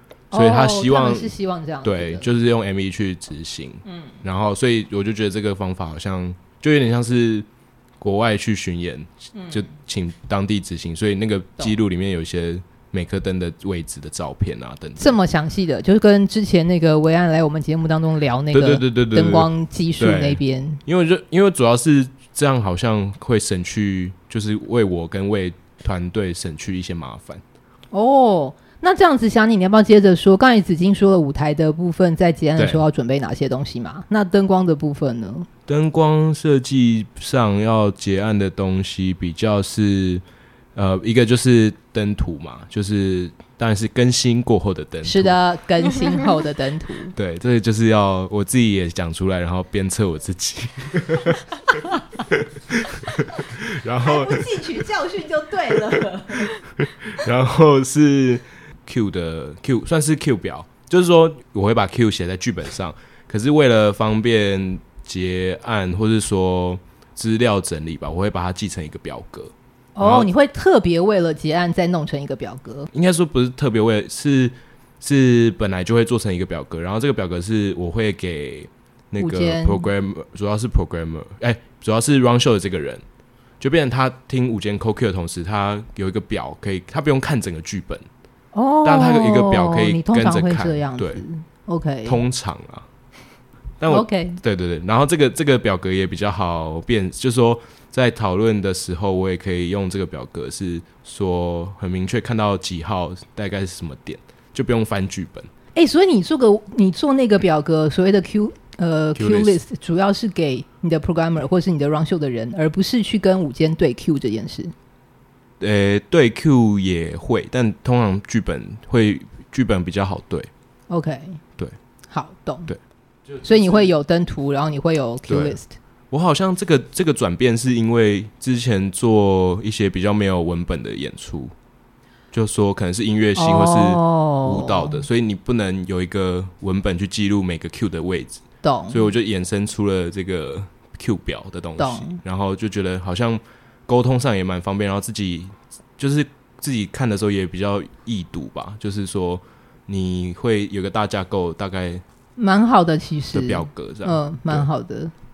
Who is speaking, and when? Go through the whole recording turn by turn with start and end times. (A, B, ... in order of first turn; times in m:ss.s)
0:00.3-0:02.3 A
0:00.3-0:07.4 B
0:03.8-0:04.2 A
0:08.0-0:15.2 B
0:09.4-0:09.6 A
0:15.0-0:20.8 A
0:18.5-0:27.4 B
0:27.9-0:35.5 A
0:32.6-0:32.8 B
0:35.7-0:40.2 B
0:40.7-0:45.4 B
0:45.0-0:47.1 A
0:47.1-0:51.5 B
0:52.3-0:54.5 B
0:54.0-0:56.5 A
0:56.8-1:10.3 B
1:10.0-1:12.9 A
1:12.9-1:23.0 B
1:19.2-1:19.9 A
1:23.6-1:28.0 B
1:28.5-1:32.2 A
1:28.8-1:31.2 B
1:32.0-1:32.8 B
1:33.8-1:45.5 B
1:33.9-1:34.4 A
1:45.7-1:54.7 A
1:49.1-1:49.6 B
1:55.6-2:00.5 B
2:00.9-2:01.4 A
2:02.1-2:02.7 A
2:02.7-2:03.9 B
2:03.4-2:05.7 A
2:05.3-2:05.6 B
2:06.1-2:11.5 B
2:12.3-2:32.0 B
2:13.4-2:15.0 A
2:18.6-2:19.1 A
2:21.8-2:22.2 A
2:32.4-2:35.1 A
2:33.3-2:34.7 B